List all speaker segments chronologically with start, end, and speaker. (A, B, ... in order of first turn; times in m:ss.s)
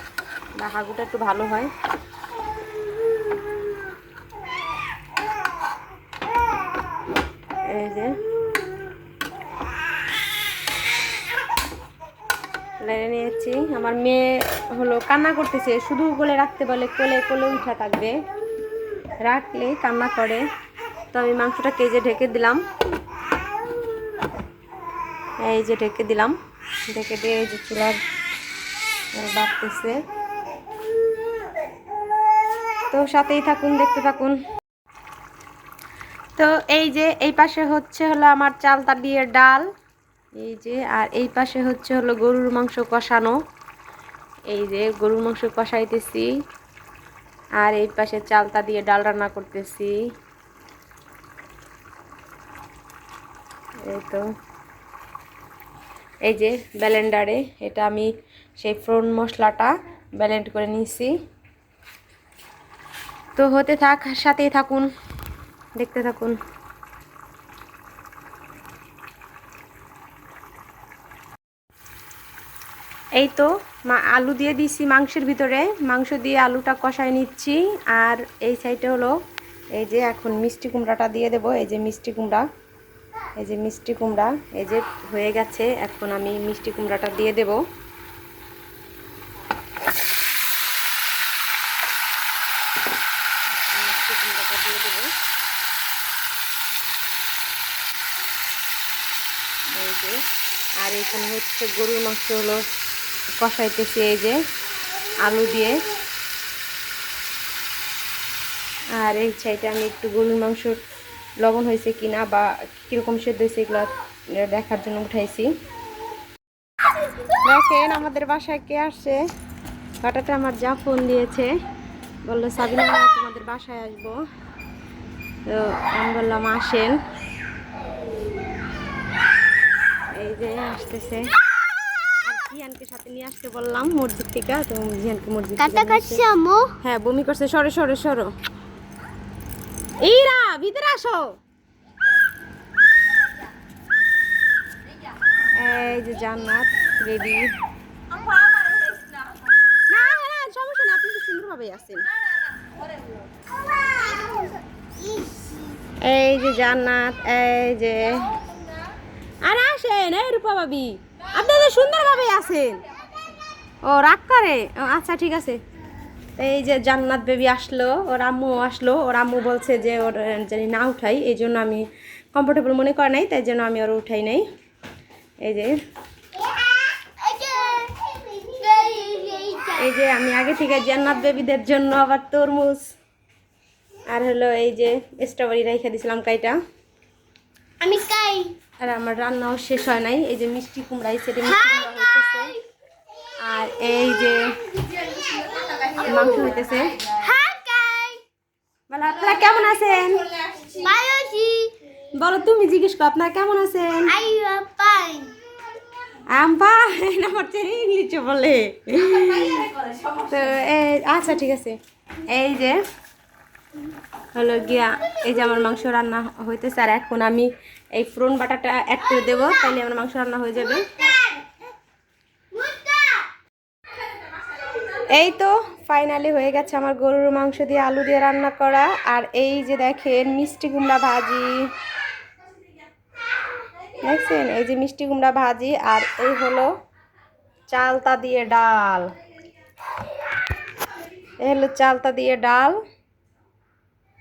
0:00.6-0:01.7 A
0:07.7-0:08.2 A
0:12.8-0:18.2 A
0:19.2-0:20.4 A
0:21.1-0:22.6 A
0:25.4-0:26.4 A
0:26.9-0:28.0 A
0:29.2-0:30.0 A
0:32.9-0:34.4 A
0:36.4-0:39.6 A
0:40.4-0:43.4 A
0:44.5-0:46.3 A
0:47.6-0:50.0 A
0:53.9-0:54.2 A
0:56.3-1:01.1 A
1:03.4-1:04.9 A
1:05.8-1:06.4 A
1:13.2-1:19.2 A
1:19.8-1:22.4 A
1:23.4-1:27.6 A
1:33.5-1:35.1 A
1:39.7-1:40.2 A
1:40.8-1:42.6 A
1:43.4-1:44.4 A
1:45.2-1:45.8 A
1:49.0-1:50.8 A
1:51.4-1:55.5 A
1:57.3-1:59.2 A
2:00.0-2:01.5 A
2:02.2-2:04.2 A
2:05.5-2:07.0 A
2:10.2-2:11.3 A
2:12.2-2:16.2 A
2:15.6-2:16.8 B
2:16.8-2:18.3 A
2:20.0-2:21.4 A
2:25.6-2:27.5 A
2:29.9-2:32.1 A
2:34.2-2:34.4 B
2:36.0-2:38.3 A
2:39.4-2:42.8 A
2:43.8-2:45.6 A
2:46.4-2:54.4 A
2:55.4-2:55.8 A
2:56.9-2:59.8 B
2:59.7-3:02.9 A
3:04.1-3:06.6 A
3:07.8-3:08.6 B
3:08.8-3:12.6 A
3:13.4-3:14.5 A
3:15.3-3:15.9 B
3:15.9-3:17.1 A
3:17.1-3:18.2 B
3:18.9-3:20.3 A
3:20.6-3:21.8 B
3:22.2-3:24.2 A
3:24.1-3:25.4 B
3:26.3-3:32.8 A
3:34.3-3:40.8 A
3:42.5-3:43.2 B
3:44.9-3:51.7 A
3:54.0-3:56.7 A
3:57.7-3:59.1 A
4:01.4-4:02.8 A